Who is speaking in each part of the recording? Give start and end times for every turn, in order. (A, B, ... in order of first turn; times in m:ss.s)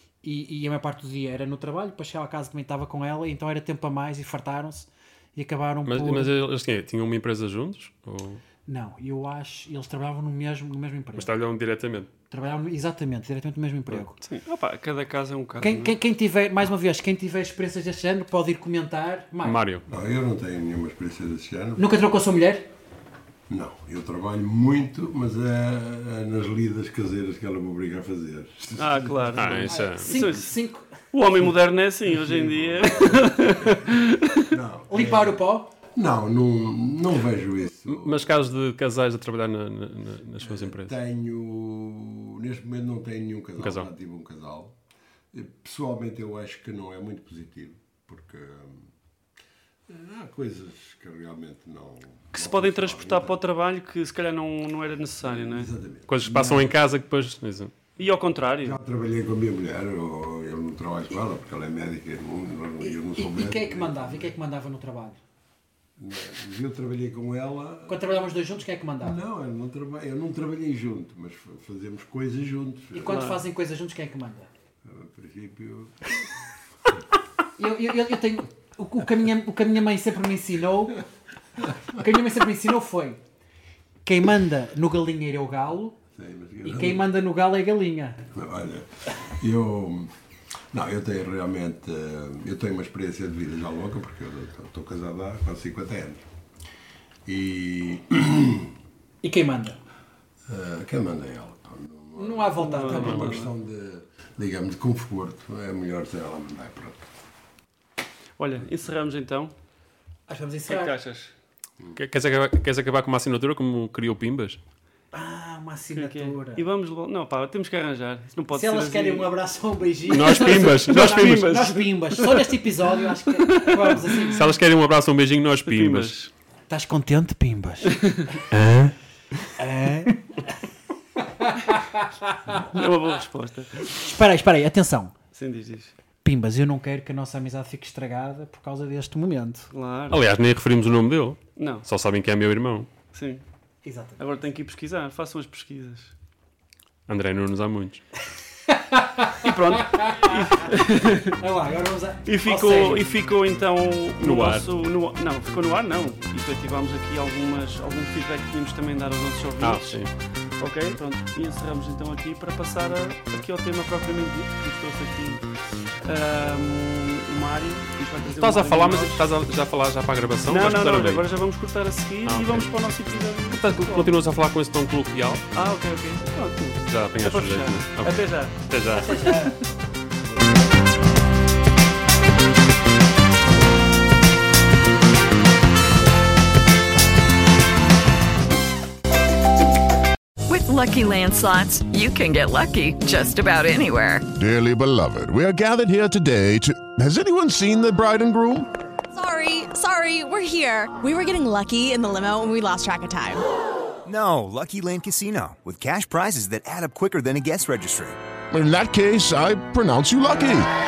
0:00.2-0:06.3 A
0:05.8-0:08.4 B
0:08.7-0:11.3 A
0:11.2-0:12.1 B
0:12.3-0:14.2 A
0:14.2-0:15.9 C
0:15.6-0:19.6 A
0:19.4-0:19.8 B
0:19.9-0:21.8 D
0:21.8-0:22.7 A
0:23.5-0:29.5 D
0:28.8-0:30.5 C
0:29.4-0:30.1 B
0:29.6-0:30.9 A
0:31.1-0:34.4 C
0:32.2-0:38.5 D
0:34.9-0:35.7 A
0:37.9-0:40.9 B
0:40.4-0:44.7 D
0:43.6-0:43.9 B
0:45.3-0:48.9 D
0:49.9-0:53.4 D
0:52.3-0:55.7 C
0:55.2-0:56.2 D
0:56.1-0:57.7 B
0:56.2-0:56.7 A
0:58.0-0:58.8 C
0:58.6-1:04.3 D
1:02.8-1:05.2 A
1:06.0-1:08.2 D
1:07.9-1:09.2 A
1:09.0-1:13.2 D
1:12.9-1:14.5 A
1:13.1-1:13.4 C
1:14.8-1:16.2 D
1:17.6-1:21.0 A
1:21.9-1:23.2 A
1:24.0-1:26.0 A
1:26.1-1:27.1 D
1:26.6-1:28.2 A
1:28.3-1:30.1 D
1:30.7-1:36.2 D
1:37.2-1:38.7 D
1:39.2-1:39.8 A
1:40.5-1:47.1 D
1:42.2-1:43.3 A
1:42.6-1:43.5 C
1:43.0-1:43.3 B
1:48.4-1:49.5 C
1:50.3-1:51.0 A
1:50.7-1:51.3 C
1:52.0-1:54.6 B
1:55.1-1:56.6 A
1:55.9-1:59.3 C
1:58.5-2:04.5 A
2:00.1-2:04.2 C
2:00.1-2:01.6 B
2:04.3-2:06.1 B
2:05.6-2:06.3 C
2:06.7-2:08.4 A
2:07.9-2:08.2 C
2:08.5-2:09.5 B
2:09.6-2:10.5 A
2:11.2-2:12.6 A
2:12.7-2:14.0 C
2:13.9-2:15.1 A
2:15.3-2:15.9 C
2:16.2-2:19.7 A
2:19.7-2:20.2 C
2:20.1-2:22.9 B
2:21.6-2:21.8 C
2:23.1-2:23.4 C
2:23.8-2:24.2 A
2:24.2-2:26.1 C
2:27.1-2:28.0 B
2:28.7-2:30.3 A
2:29.4-2:31.4 C
2:31.4-2:33.0 A
2:32.2-2:40.1 C
2:34.2-2:34.6 B
2:39.6-2:40.1 B
2:40.6-2:45.4 C
2:46.0-2:49.2 C
2:48.3-2:51.2 B
2:50.5-2:54.1 C
2:52.2-2:52.7 B
2:53.5-2:55.4 B
2:55.5-2:59.5 C
2:56.9-2:59.2 B
2:58.9-2:59.6 A
3:10.5-3:14.3 E
3:14.3-3:18.7 F
3:19.1-3:23.4 G
3:24.0-3:28.2 H
3:28.5-3:30.7 F